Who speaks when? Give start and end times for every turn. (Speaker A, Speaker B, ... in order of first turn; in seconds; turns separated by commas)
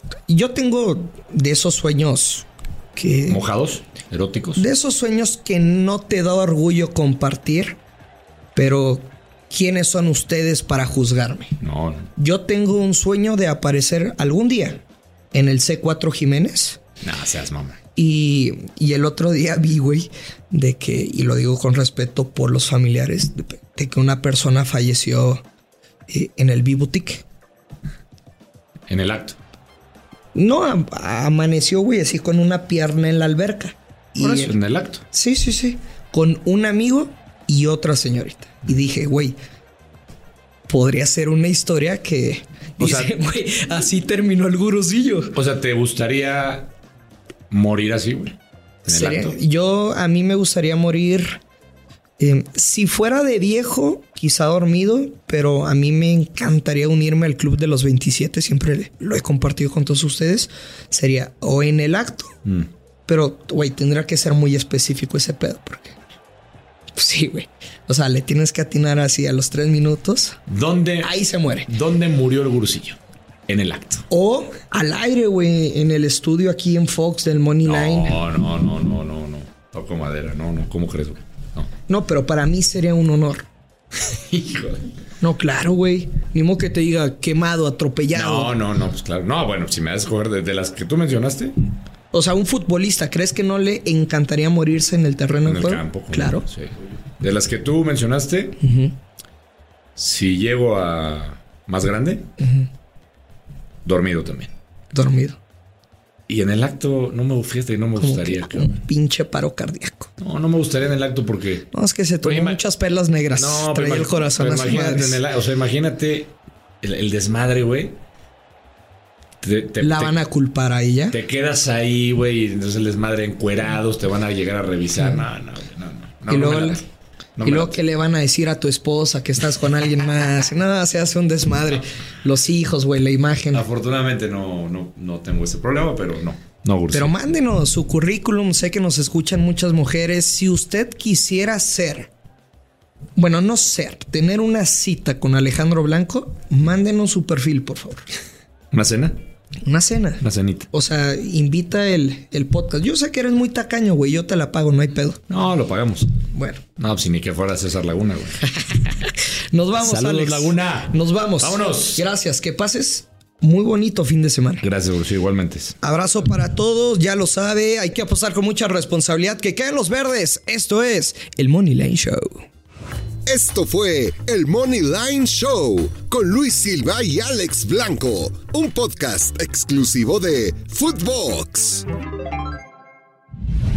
Speaker A: 0.3-3.4, Speaker B: 3.3-4.7, Speaker A: 4.5-7.8, Speaker A: 8.5-11.6, Speaker B: 11.6-12.1, Speaker A: 12.2-14.8, Speaker A: 15.3-16.8, Speaker B: 17.0-17.8, Speaker A: 17.9-25.4, Speaker A: 26.1-27.2, Speaker B: 28.9-29.4, Speaker A: 30.3-34.5, Speaker B: 34.2-35.0, Speaker A: 35.1-39.4, Speaker A: 40.7-45.4, Speaker B: 42.8-43.1, Speaker B: 45.3-46.7, Speaker B: 47.5-49.4, Speaker A: 48.9-51.4, Speaker A: 52.2-62.3, Speaker A: 63.1-66.0, Speaker A: 67.0-70.4, Speaker B: 70.5-74.0, Speaker A: 71.0-71.7, Speaker A: 74.1-78.2, Speaker B: 77.6-81.7, Speaker A: 81.9-83.5, Speaker B: 84.0-84.8, Speaker A: 85.2-88.5, Speaker B: 88.1-91.5, Speaker A: 92.1-96.5, Speaker B: 95.4-98.6, Speaker A: 98.6-99.0, Speaker B: 100.0-102.3, Speaker A: 102.4-102.7, Speaker B: 103.8-104.5, Speaker A: 104.9-105.4, Speaker B: 106.3-108.8, Speaker A: 108.0-110.1, Speaker B: 110.2-111.7, Speaker A: 111.7-115.2, Speaker B: 112.2-112.6, Speaker B: 113.3-118.0, Speaker B: 119.4-120.1, Speaker A: 119.8-121.2, Speaker B: 121.1-126.8, Speaker A: 126.3-126.8, Speaker B: 127.4-127.8, Speaker A: 127.4-133.7, Speaker B: 133.5-137.1, Speaker A: 136.9-142.1, Speaker A: 143.2-148.0, Speaker B: 148.7-149.2, Speaker A: 149.6-155.2, Speaker B: 150.2-150.7, Speaker B: 155.3-156.1, Speaker A: 156.3-156.6, Speaker B: 156.8-158.5, Speaker A: 158.7-164.6, Speaker B: 159.8-162.0, Speaker B: 164.6-165.8, Speaker A: 165.8-172.4, Speaker C: 173.2-181.8